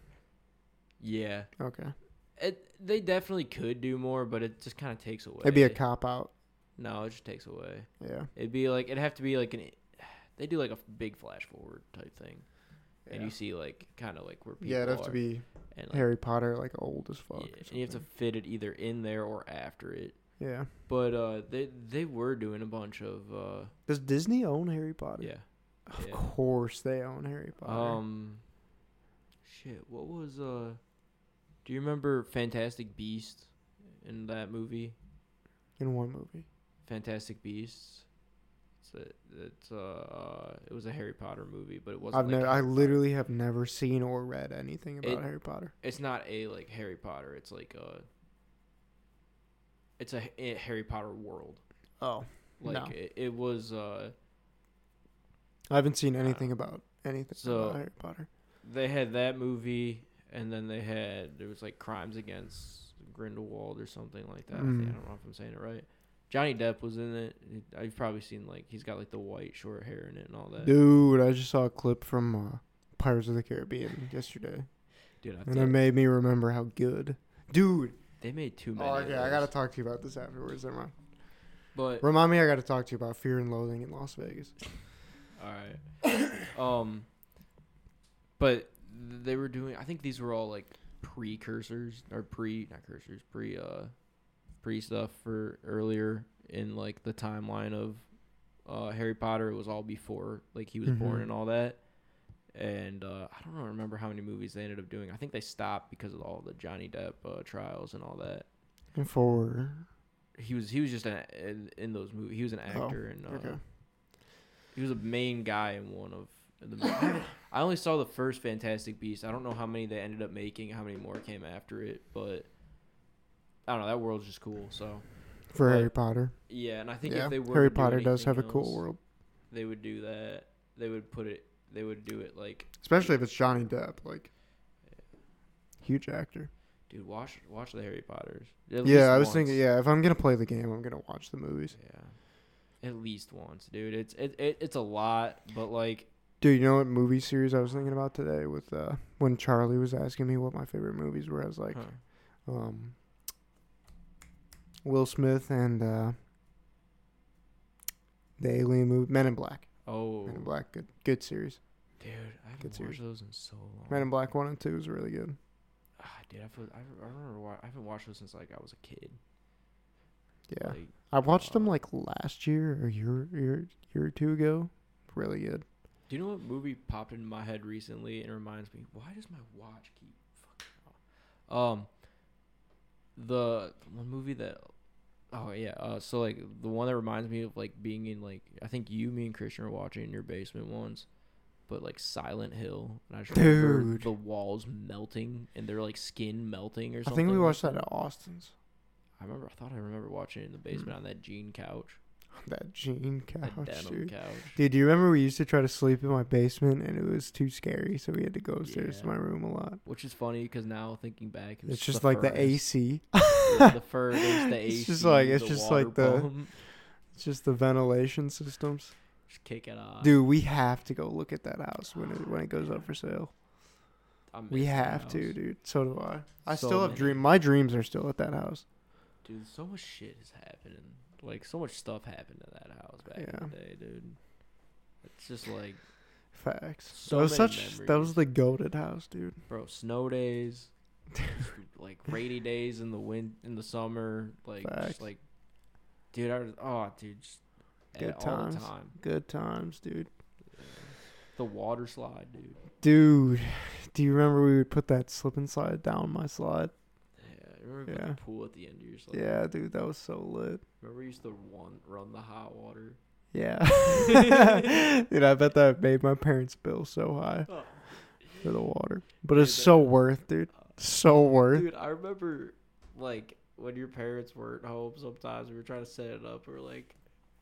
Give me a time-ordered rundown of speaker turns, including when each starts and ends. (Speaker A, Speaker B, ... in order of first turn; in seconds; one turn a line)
Speaker A: 1.0-1.5
Speaker B: 1.6-1.9
Speaker A: 2.4-5.8
Speaker B: 5.4-6.3
Speaker A: 6.8-12.4
Speaker B: 8.0-8.3
Speaker B: 13.1-13.3
Speaker A: 13.1-15.2
Speaker B: 14.6-18.0
Speaker A: 15.7-16.1
Speaker A: 17.3-20.2
Speaker B: 20.4-20.7
Speaker A: 20.9-23.7
Speaker B: 23.9-25.3
Speaker A: 25.2-26.3
Speaker B: 25.9-28.0
Speaker A: 27.6-28.4
Speaker A: 29.4-30.8
Speaker A: 31.6-35.0
Speaker B: 35.8-36.4
Speaker A: 36.8-38.1
Speaker A: 38.8-43.0
Speaker B: 42.1-45.7
Speaker A: 45.0-48.1
Speaker A: 50.0-51.6
Speaker B: 52.0-52.9
Speaker A: 52.6-54.1
Speaker B: 55.7-58.3
Speaker A: 57.3-57.8
Speaker A: 58.6-70.7
Speaker B: 64.5-65.0
Speaker B: 70.6-74.7
Speaker A: 75.2-75.8
Speaker B: 75.5-78.0
Speaker A: 78.2-79.5
Speaker B: 78.8-80.9
Speaker A: 81.7-82.1
Speaker B: 82.0-84.5
Speaker A: 85.4-87.1
Speaker A: 88.4-93.9
Speaker A: 94.6-98.1
Speaker A: 98.6-101.8
Speaker B: 100.8-101.2
Speaker A: 102.5-108.5
Speaker B: 108.9-109.9
Speaker A: 110.3-113.6
Speaker B: 112.7-113.6
Speaker A: 114.7-122.5
Speaker A: 123.7-125.9
Speaker B: 125.5-126.3
Speaker A: 126.5-128.8
Speaker B: 127.0-129.0
Speaker A: 129.5-133.6
Speaker B: 132.8-134.3
Speaker B: 135.8-136.5
Speaker A: 136.9-139.6
Speaker B: 138.8-141.7
Speaker A: 141.7-142.2
Speaker A: 142.8-146.1
Speaker B: 146.4-151.8
Speaker A: 151.7-152.0
Speaker B: 152.4-152.9
Speaker B: 154.8-156.2
Speaker B: 158.4-159.7
Speaker A: 159.8-160.5
Speaker B: 160.3-161.6
Speaker A: 162.0-164.1
Speaker B: 162.6-163.0
Speaker B: 163.9-165.4
Speaker A: 166.0-169.2
Speaker B: 170.5-175.6
Speaker A: 170.6-171.7
Speaker A: 176.1-181.0
Speaker A: 181.5-181.9
Speaker A: 183.2-184.7
Speaker A: 185.3-191.1
Speaker A: 191.7-197.8
Speaker B: 193.3-194.1
Speaker B: 197.0-198.5
Speaker A: 199.2-202.0
Speaker B: 202.4-209.8
Speaker A: 203.4-204.6
Speaker A: 208.6-209.1
Speaker A: 209.8-212.6
Speaker B: 211.7-218.9
Speaker A: 213.4-216.5
Speaker A: 219.3-220.2
Speaker B: 220.0-223.3
Speaker A: 224.3-225.3
Speaker B: 224.5-228.6
Speaker A: 226.4-227.2
Speaker A: 229.2-234.2
Speaker B: 233.2-233.5
Speaker A: 235.0-235.8
Speaker B: 236.3-239.4
Speaker A: 236.9-238.2
Speaker A: 239.5-240.7
Speaker A: 241.3-245.2
Speaker B: 244.6-245.0
Speaker A: 246.1-247.4
Speaker A: 247.9-248.9
Speaker B: 248.0-250.1
Speaker A: 250.6-252.6
Speaker B: 252.8-256.7
Speaker A: 257.2-259.4
Speaker B: 257.9-258.2
Speaker B: 259.1-260.6
Speaker A: 260.8-263.0
Speaker B: 263.3-267.5
Speaker A: 263.9-264.6
Speaker A: 267.5-268.5
Speaker B: 268.4-271.6
Speaker A: 269.3-269.9
Speaker A: 271.5-276.9